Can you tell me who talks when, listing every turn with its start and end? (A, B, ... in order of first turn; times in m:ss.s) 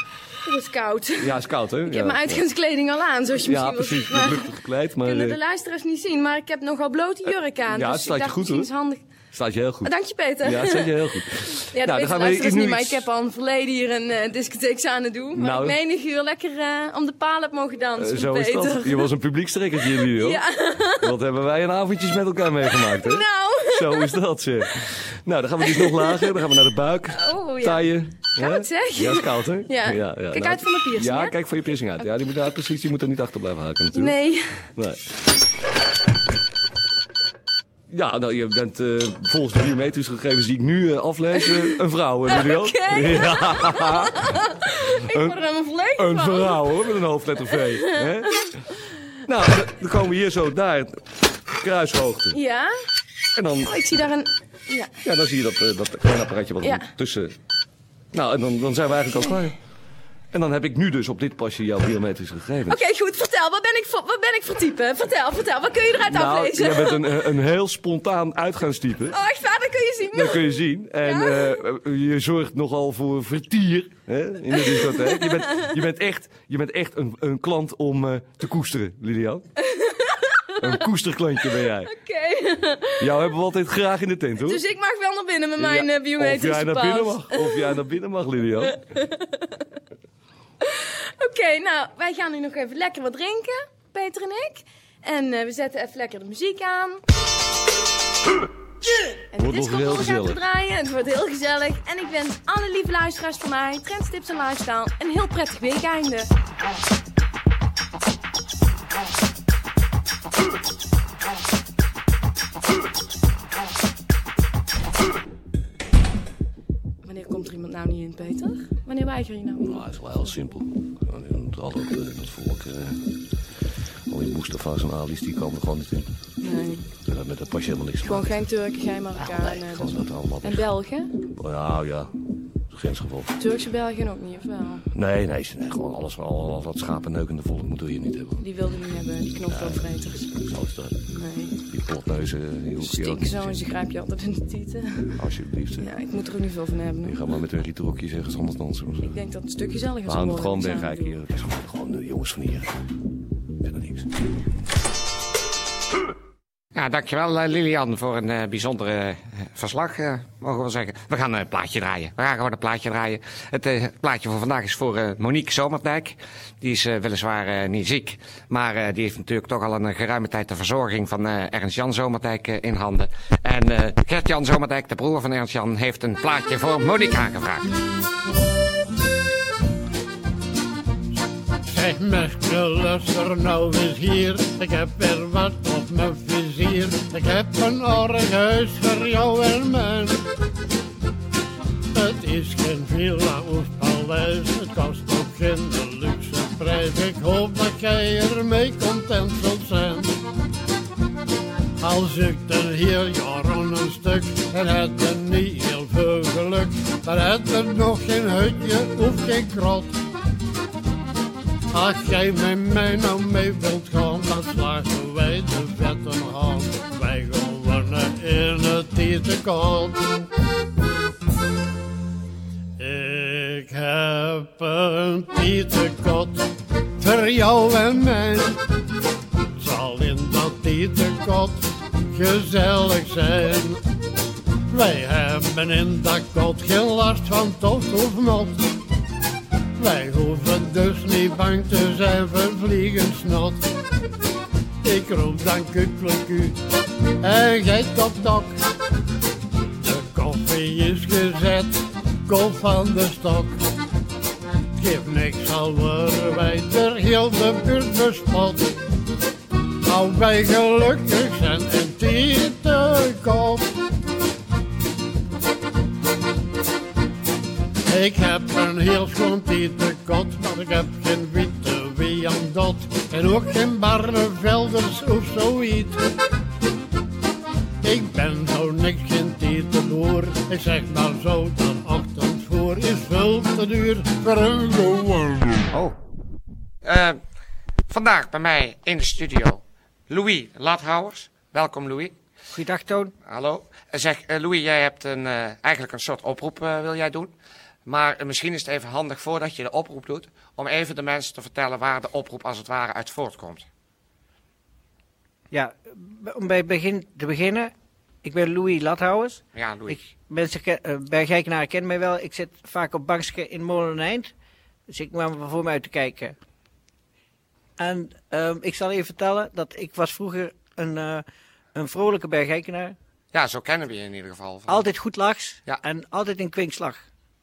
0:00.4-0:09.0 A
0:01.2-0:02.4 B
0:03.4-0:05.4 B
0:07.7-0:08.7 B
0:09.3-0:13.1 B
0:09.8-0:11.0 A
0:11.6-0:19.1 A
0:15.3-0:15.8 B
0:18.0-0:20.4 B
0:19.9-0:21.1 A
0:21.0-0:34.2 B
0:22.6-0:24.2 A
0:25.6-0:26.3 A
0:27.1-0:31.4 A
0:33.9-0:34.6 A
0:34.8-0:35.0 B
0:37.9-0:44.4 B
0:41.4-0:46.8 A
0:45.0-0:45.4 B
0:46.0-0:48.6 B
0:47.5-0:48.5 A
0:49.2-0:50.9 B
0:51.6-0:52.4 B
0:52.3-0:52.8 A
0:53.3-0:53.8 B
0:53.7-0:55.0 A
0:55.0-0:57.3 B
0:56.6-0:56.9 A
0:58.1-0:59.6 B
1:00.3-1:02.8 B
1:02.7-1:07.1 A
1:06.0-1:09.2 B
1:09.1-1:10.5 A
1:10.1-1:19.4 B
1:11.0-1:11.6 A
1:14.6-1:15.7 A
1:19.6-1:20.9 A
1:20.6-1:21.9 B
1:21.6-1:23.1 A
1:23.0-1:24.6 B
1:24.4-1:27.8 A
1:25.6-1:28.8 B
1:28.6-1:29.6 A
1:30.6-1:37.0 A
1:39.2-1:46.3 A
1:39.4-1:40.4 B
1:57.0-1:59.8 A
1:59.6-2:03.0 B
2:04.1-2:06.1 B
2:06.4-2:06.9 A
2:07.1-2:08.5 B
2:08.0-2:11.1 A
2:09.2-2:10.7 B
2:11.3-2:12.1 B
2:12.7-2:13.3 B
2:13.4-2:14.8 A
2:14.9-2:18.4 B
2:18.4-2:20.2 A
2:19.5-2:21.0 B
2:21.1-2:21.6 A
2:21.6-2:23.7 B
2:22.8-2:25.2 A
2:25.2-2:25.9 B
2:25.8-2:27.2 A
2:27.0-2:29.2 B
2:29.1-2:31.2 A
2:30.1-2:32.7 B
2:33.6-2:34.1 B
2:36.8-2:57.7 C
3:01.7-3:10.2 D
3:11.9-3:20.2 D
3:21.8-3:30.0 D
3:31.7-3:40.1 D
3:42.8-3:48.6 D
3:49.6-3:53.8 D
3:54.7-3:58.7 D
3:59.8-4:03.7 D
4:04.8-4:06.6 D
4:07.2-4:08.6 D
4:09.8-4:13.6 D
4:14.8-4:18.8 D
4:19.8-4:23.7 D
4:27.9-4:36.0 D
4:37.8-4:45.6 D
4:46.8-4:47.2 C
4:47.9-4:52.2 C
4:52.5-4:53.1 E
4:53.3-4:57.3 C
4:57.9-5:03.7 C
5:05.5-5:07.7 E
5:08.2-5:14.3 E
5:09.6-5:10.0 C
5:14.9-5:16.4 E
5:17.8-5:23.0 E
5:23.3-5:24.9 C
5:24.7-5:27.0 E